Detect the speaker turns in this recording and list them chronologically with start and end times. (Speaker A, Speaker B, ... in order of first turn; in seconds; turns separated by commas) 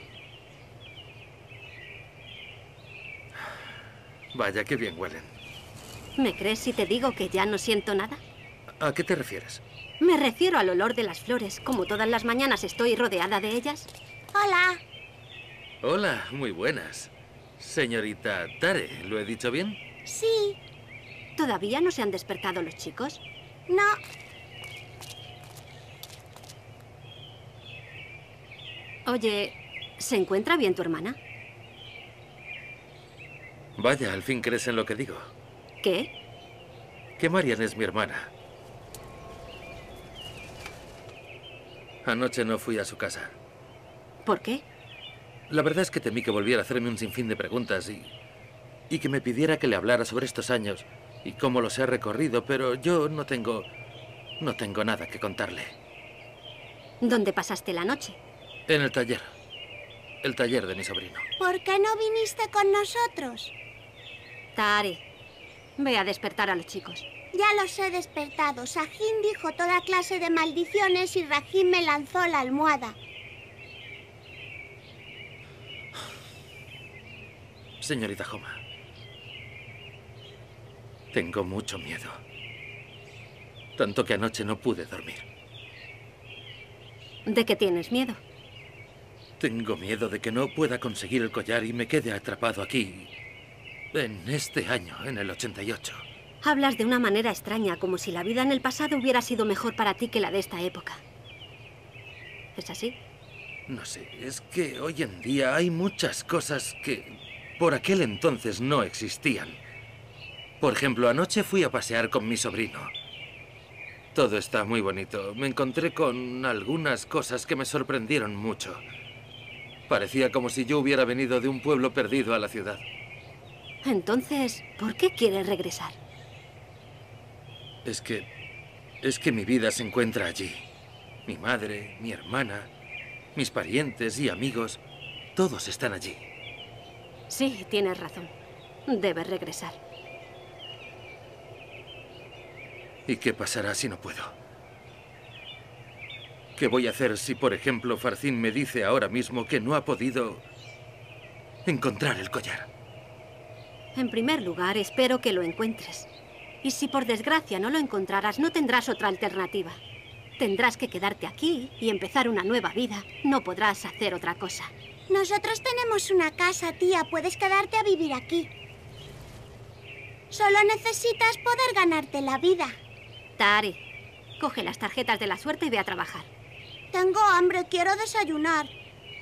Speaker A: 4.3-5.3, Speaker B: 6.2-8.2, Speaker A: 8.8-9.6, Speaker B: 10.0-13.9, Speaker C: 14.3-14.8, Speaker A: 15.8-19.8, Speaker C: 20.1-20.6, Speaker B: 21.4-23.2, Speaker C: 23.7-24.0, Speaker B: 29.1-31.2, Speaker A: 33.8-35.3, Speaker B: 35.8-36.1, Speaker A: 37.2-38.3, Speaker A: 42.0-43.4, Speaker B: 44.3-44.6, Speaker A: 45.5-48.1, Speaker A: 48.9-53.7, Speaker A: 54.4-55.8, Speaker B: 57.0-58.2, Speaker A: 58.7-59.3, Speaker A: 60.2-61.3, Speaker C: 61.4-63.5, Speaker B: 64.6-65.0, Speaker B: 65.8-67.1, Speaker C: 67.3-73.0, Speaker A: 77.8-78.6, Speaker A: 81.1-82.2, Speaker A: 83.8-85.3, Speaker B: 87.3-88.2, Speaker A: 89.4-93.1, Speaker A: 93.9-96.0, Speaker B: 96.4-101.0, Speaker B: 102.6-103.0, Speaker A: 103.7-109.6, Speaker A: 110.6-112.9, Speaker A: 114.1-118.8, Speaker A: 119.9-122.8, Speaker B: 123.8-126.0, Speaker A: 127.8-128.3, Speaker A: 129.0-130.6, Speaker A: 131.3-132.7, Speaker A: 133.3-134.8, Speaker A: 135.4-136.2, Speaker B: 137.3-138.3, Speaker B: 138.9-139.8, Speaker A: 143.1-144.3, Speaker A: 146.6-150.4, Speaker A: 151.7-152.7, Speaker B: 153.9-156.1, Speaker B: 156.6-159.8, Speaker B: 160.4-164.7, Speaker C: 165.1-168.5, Speaker C: 170.3-172.8, Speaker B: 173.4-173.8, Speaker B: 174.4-176.3, Speaker C: 176.9-178.7